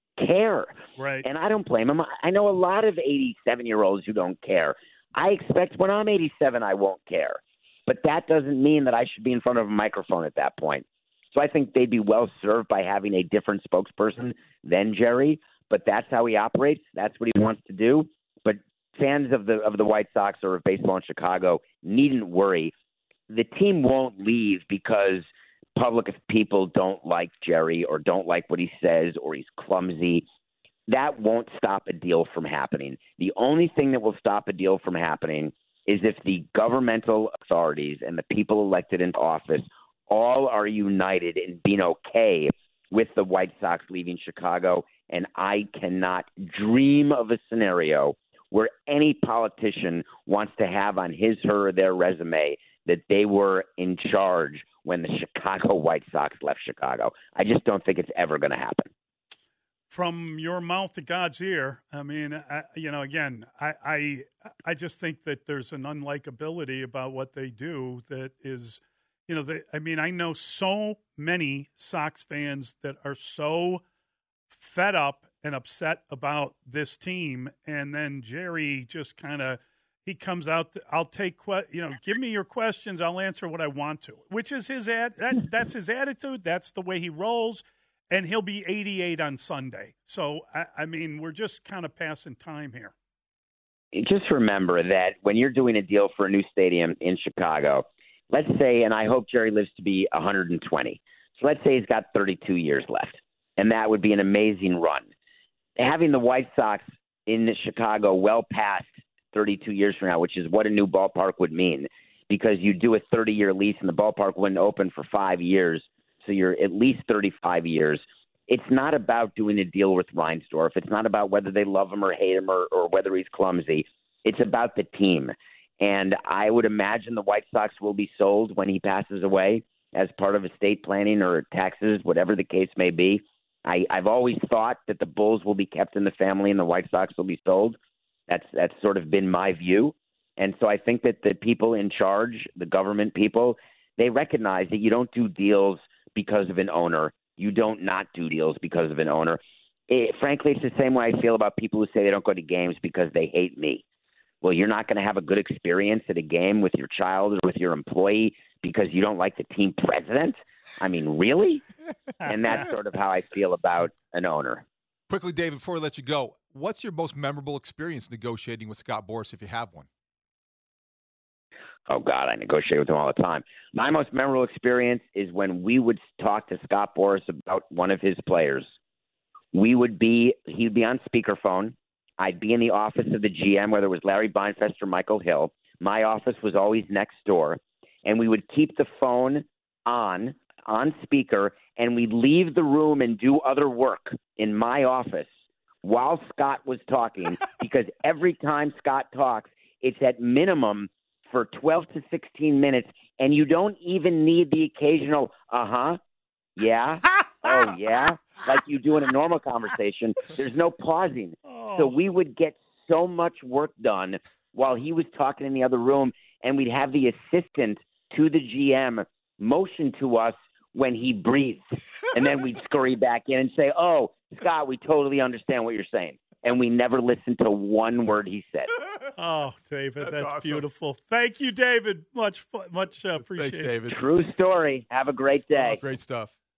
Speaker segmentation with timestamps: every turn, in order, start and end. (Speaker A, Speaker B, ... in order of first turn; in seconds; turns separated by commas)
Speaker A: 0.2-22.7, Speaker B: 1.0-1.2, Speaker A: 23.3-30.2, Speaker A: 30.9-58.9, Speaker B: 59.9-73.8, Speaker B: 74.5-92.9, Speaker A: 93.9-105.1, Speaker A: 105.8-153.8, Speaker A: 154.4-161.6, Speaker B: 162.2-162.6, Speaker A: 162.2-164.6, Speaker C: 165.1-169.9, Speaker A: 171.9-178.6, Speaker A: 179.5-195.3, Speaker A: 195.8-206.0, Speaker A: 206.6-228.7, Speaker B: 211.5-211.9, Speaker B: 229.1-233.8, Speaker C: 230.0-230.6, Speaker C: 233.2-234.1, Speaker A: 233.9-235.8, Speaker C: 235.5-236.3